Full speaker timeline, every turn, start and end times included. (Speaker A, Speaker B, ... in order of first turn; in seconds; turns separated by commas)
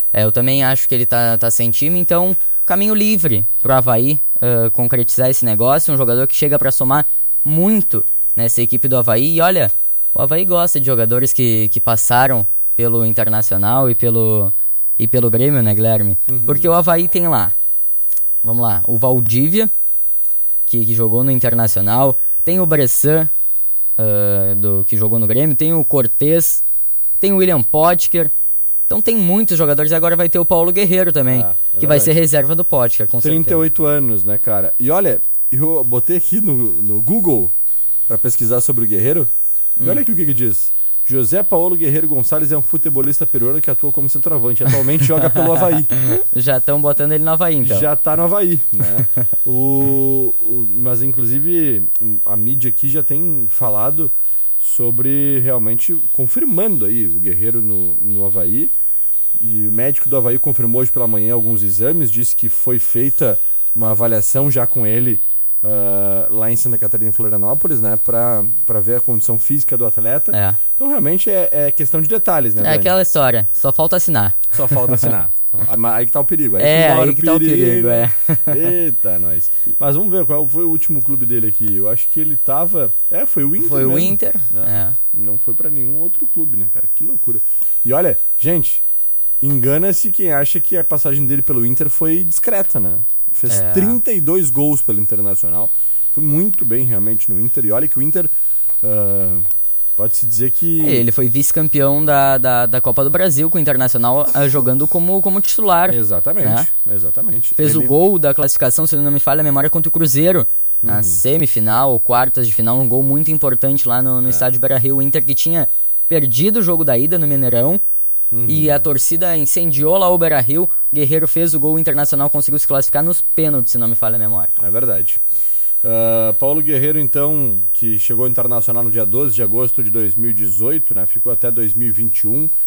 Speaker A: 0.1-17.5, Speaker B: 16.3-16.7, Speaker A: 18.4-19.7, Speaker A: 20.7-23.3, Speaker A: 24.0-26.6, Speaker A: 27.2-28.3, Speaker A: 28.9-33.6, Speaker B: 31.3-32.2, Speaker B: 33.2-37.5, Speaker B: 38.1-45.9, Speaker A: 45.2-47.9, Speaker B: 47.6-58.7, Speaker B: 59.4-72.9, Speaker A: 70.3-70.6, Speaker A: 72.6-75.1, Speaker B: 74.5-88.8, Speaker A: 76.6-78.7, Speaker A: 83.6-85.0, Speaker B: 89.4-98.3, Speaker A: 93.5-94.0, Speaker B: 98.8-101.0, Speaker A: 100.8-106.7, Speaker B: 105.9-107.9, Speaker A: 107.6-117.8, Speaker B: 110.8-111.2, Speaker B: 118.3-118.9, Speaker A: 118.5-124.5, Speaker B: 124.6-125.2, Speaker B: 125.8-132.5